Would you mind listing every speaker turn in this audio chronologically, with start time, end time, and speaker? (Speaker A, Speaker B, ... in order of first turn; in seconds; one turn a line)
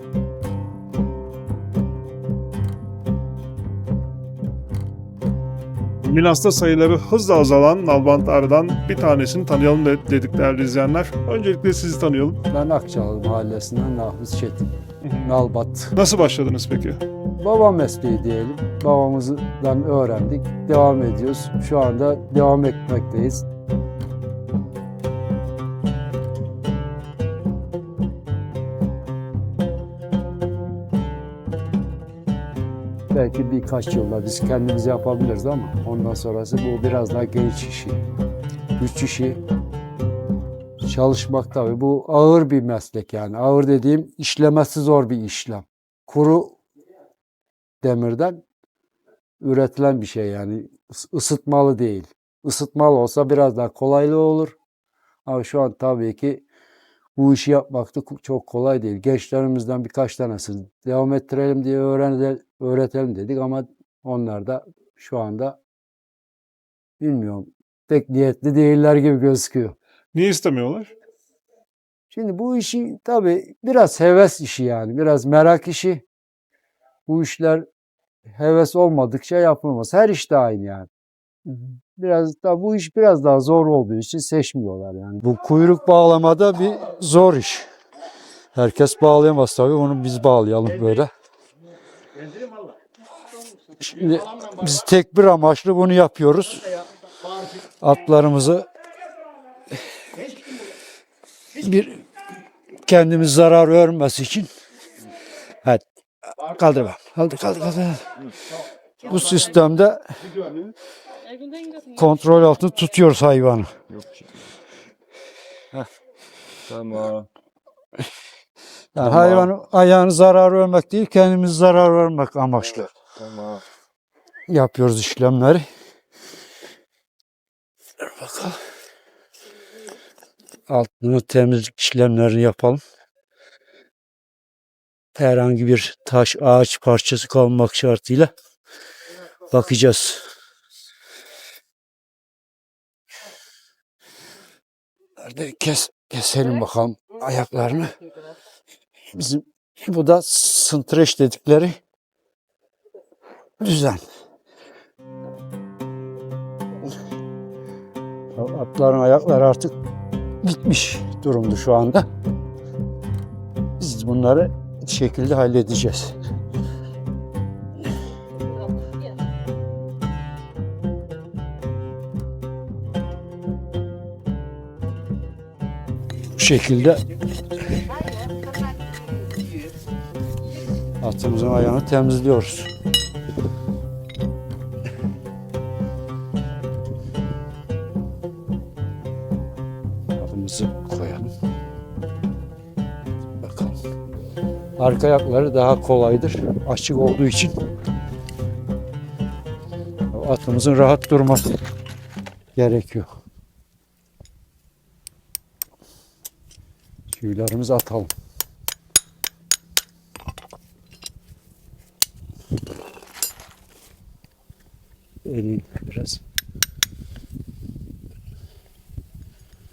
Speaker A: 6.0-12.4
Speaker B: 12.5-14.7
Speaker A: 15.0-17.0
Speaker B: 15.2-15.9
Speaker B: 17.4-23.4
Speaker B: 33.1-38.0
Speaker B: 38.8-39.4
Speaker B: 40.8-46.6
Speaker B: 47.8-48.4
Speaker B: 49.4-54.5
Speaker B: 55.2-56.4
Speaker B: 57.2-65.6
Speaker B: 67.0-69.8
Speaker A: 70.1-70.9
Speaker B: 72.1-76.0
Speaker B: 77.1-77.7
Speaker B: 78.3-80.9
Speaker B: 81.5-87.7
Speaker B: 88.5-91.1
Speaker B: 93.8-96.7
Speaker B: 97.8-98.7
Speaker B: 101.6-102.0
Speaker B: 102.8-104.5
Speaker B: 106.4-108.2
Speaker B: 109.0-110.0
Speaker B: 111.8-113.7
Speaker C: 113.9-114.2
Speaker C: 116.7-117.3
Speaker B: 118.9-122.9
Speaker C: 119.1-119.5
Speaker C: 123.2-123.6
Speaker B: 124.5-125.7
Speaker B: 128.1-128.6
Speaker B: 130.7-132.8
Speaker B: 135.2-138.3
Speaker B: 139.5-140.2
Speaker B: 145.2-147.9
Speaker B: 149.1-151.8
Speaker B: 153.6-154.0
Speaker B: 158.3-159.7
Speaker B: 160.4-162.1
Speaker B: 163.8-166.2
Speaker B: 176.3-177.0
Speaker B: 181.0-182.7
Speaker B: 190.1-191.3
Speaker B: 193.4-193.8
Speaker B: 194.8-197.5
Speaker B: 200.1-201.6
Speaker B: 202.6-203.1
Speaker B: 207.1-208.1
Speaker B: 215.2-216.2